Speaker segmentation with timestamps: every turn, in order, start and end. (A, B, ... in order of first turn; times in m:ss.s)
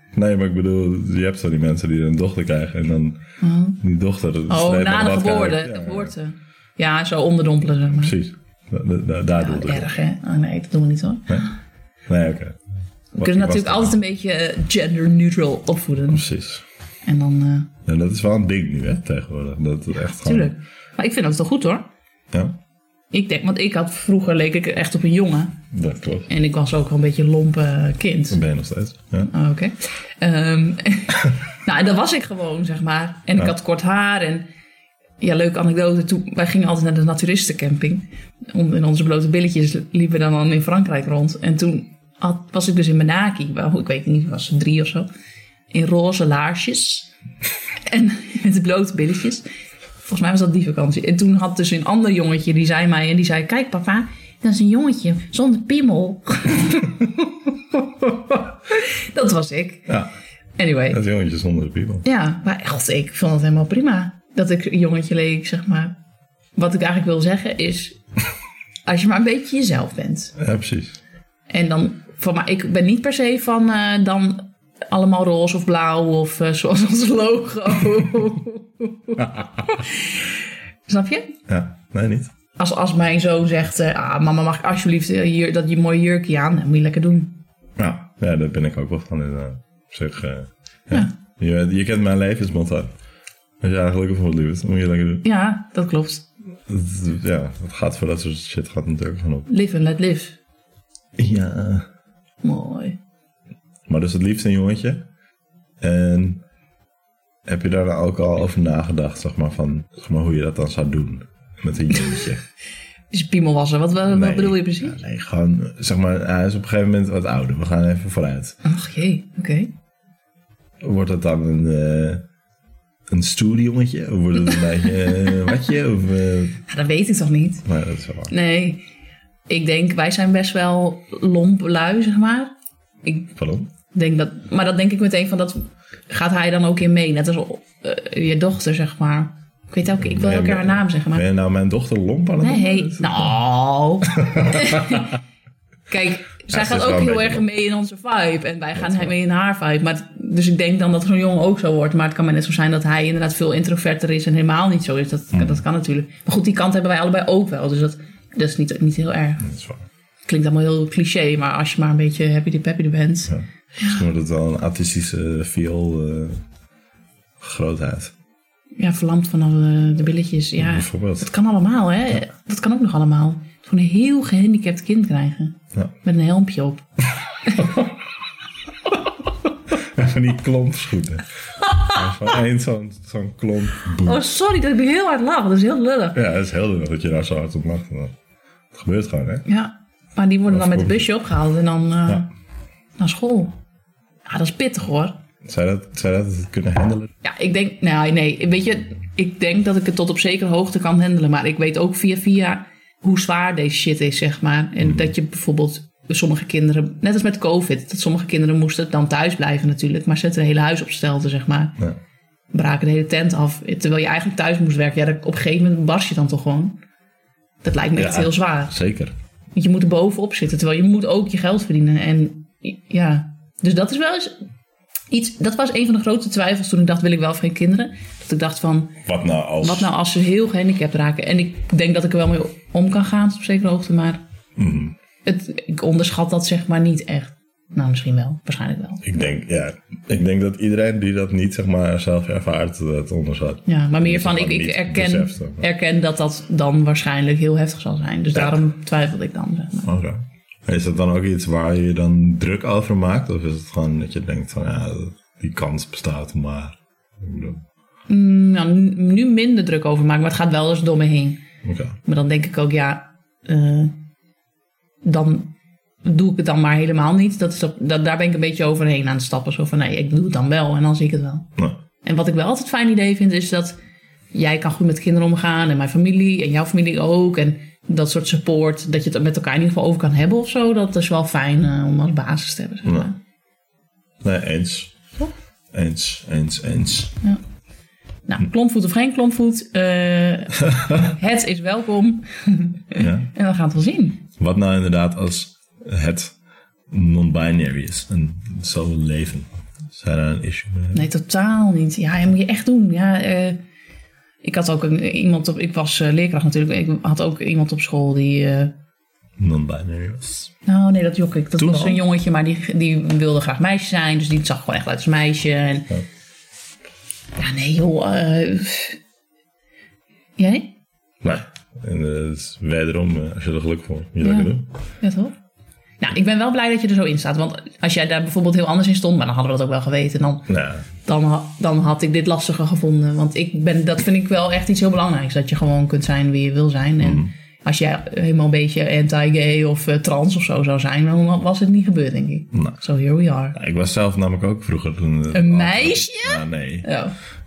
0:00.1-0:03.2 A
0:03.4-0:03.8 B
0:03.8-0:06.1 A
0:04.5-0:08.2 B
0:07.9-0:09.9 A
0:09.4-0:11.5 B
0:12.1-0:12.6 A
0:13.1-0:16.2 B
0:13.2-0:14.0 A
0:16.1-0:16.6 A
0:17.0-0:17.7 B
0:17.8-0:20.5 A
0:20.0-0:21.8 B
0:22.3-0:22.6 A
0:23.1-0:25.6 B
0:25.7-0:26.3 A
0:26.3-0:28.4 B
0:28.3-0:29.3 A
0:29.2-0:34.4 B
0:35.2-0:45.1 B
0:45.7-0:47.1 B
0:47.8-0:49.4 B
0:50.1-0:57.1 B
0:58.7-0:59.9 B
0:59.9-1:00.1 A
1:00.6-1:01.0 B
1:00.9-1:02.0 A
1:02.0-1:05.9 B
1:06.6-1:08.0 B
1:08.8-1:10.3 B
1:10.4-1:11.0 A
1:11.5-1:20.4 B
1:20.9-1:21.3 B
1:21.5-1:22.3 A
1:22.6-1:27.4 B
1:27.8-1:32.9 A
1:33.6-1:35.2 A
1:35.2-1:36.2 B
1:36.7-1:39.5 A
1:39.5-1:40.4 B
1:41.2-1:41.9 A
1:42.4-1:43.0 B
1:43.9-1:45.0 A
1:45.8-1:46.4 A
1:47.4-1:52.4 A
1:53.1-1:55.0 B
1:54.1-1:58.6 A
1:58.6-1:59.7 B
2:00.8-2:02.2 A
2:03.1-2:06.6 A
2:06.7-2:07.6 B
2:07.6-2:08.3 A
2:08.3-2:08.8 B
2:09.5-2:12.5 B
2:13.0-2:13.3 B
2:13.4-2:13.7 A
2:13.9-2:21.2 B
2:19.9-2:23.3 A
2:22.4-2:25.2 B
2:24.0-2:25.1 A
2:25.9-2:39.5 B
2:26.5-2:27.4 A
2:28.8-2:29.1 A
2:35.3-2:35.6 A
2:39.4-2:39.8 A
2:40.2-2:44.0 B
2:43.3-2:46.4 A
2:47.4-2:48.1 A
2:48.8-2:56.8 B
2:50.6-2:51.3 A
2:57.4-2:57.7 B
2:57.6-2:58.0 A
2:58.8-3:01.2 A
3:01.6-3:02.2 B
3:01.8-3:04.2 A
3:04.0-3:06.2 B
3:06.1-3:08.2 A
3:08.7-3:09.4 A
3:09.4-3:12.3 B
3:10.5-3:11.1 A
3:13.0-3:13.6 B
3:14.2-3:15.2 B
3:15.4-3:17.1 A
3:17.2-3:31.8 B
3:24.8-3:25.1 A
3:32.5-3:36.8 B
3:37.6-3:38.7 B
3:38.0-3:39.1 A
3:39.5-3:44.4 B
3:45.1-3:49.0 B
3:49.0-3:49.9 A
3:49.6-3:54.2 B
3:54.6-3:55.0 A
3:55.2-3:59.1 B
3:59.0-4:05.6 A
4:03.6-4:09.9 B
4:08.3-4:08.6 A
4:09.8-4:17.6 A
4:18.1-4:21.4 B
4:21.6-4:22.0 A
4:22.0-4:23.9 B
4:25.0-4:25.5 B
4:26.0-4:31.5 B
4:32.0-4:33.8 B
4:34.3-4:43.2 B
4:42.8-4:43.1 A
4:44.2-4:45.0 A
4:45.7-4:47.1 A
4:48.3-4:54.2 B
4:53.0-4:53.3 A
4:54.4-4:56.4 A
4:56.9-5:01.0 A
5:00.9-5:03.6 B
5:04.4-5:08.7 B
5:09.4-5:10.5 A
5:10.6-5:15.9 B
5:11.6-5:12.0 A
5:17.4-5:19.0 B
5:20.4-5:20.7 B
5:21.2-5:24.7 A
5:24.2-5:25.3 B
5:26.0-5:30.5 B
5:30.5-5:30.8 A
5:31.0-5:43.6 B
5:37.0-5:37.3 A
5:43.5-5:46.9 A
5:45.3-5:47.2 B